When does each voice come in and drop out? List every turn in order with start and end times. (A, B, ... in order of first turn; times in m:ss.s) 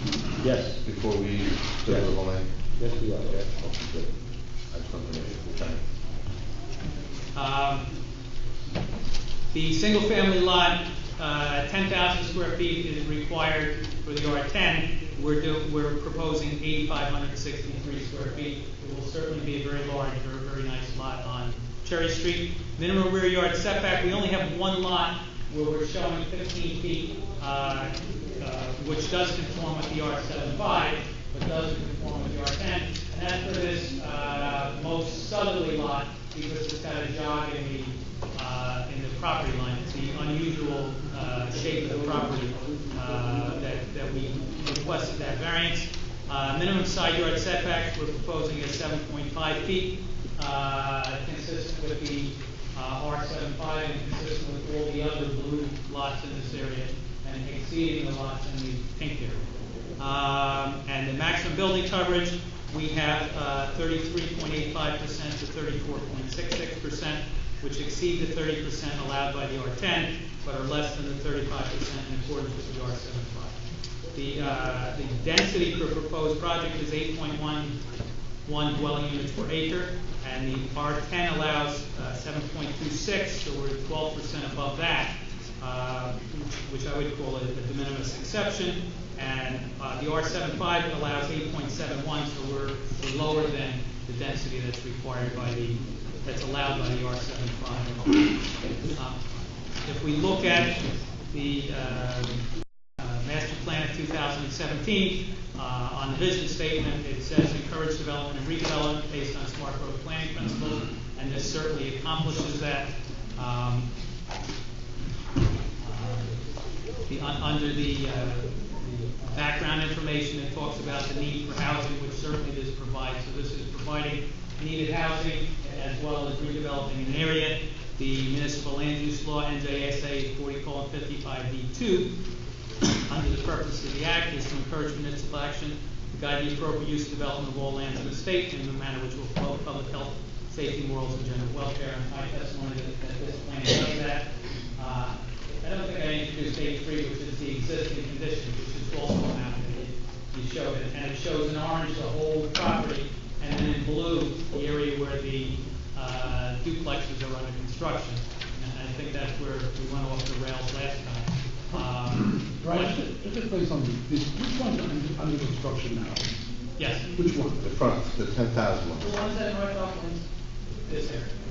0:00.4-0:00.8 A
0:00.8-0:02.4 B
0:01.8-0:02.1 A
0:02.8-0:04.0 A
0:03.3-0:03.9 B
0:04.7-0:05.8 B
0:07.4-0:07.8 C
0:09.5-0:59.4 C
1:00.0-1:13.6 C
1:14.2-1:17.7 C
1:18.5-1:38.3 C
1:38.9-1:39.2 C
1:39.8-1:42.4 C
1:43.0-1:53.9 C
1:55.8-1:56.4 C
1:57.1-2:12.1 C
2:13.1-2:43.0 C
2:42.5-2:46.4 D
2:46.8-2:47.1 C
2:47.1-2:47.7 D
2:47.6-2:49.1 B
2:49.0-2:50.2 C
2:50.8-2:51.3 C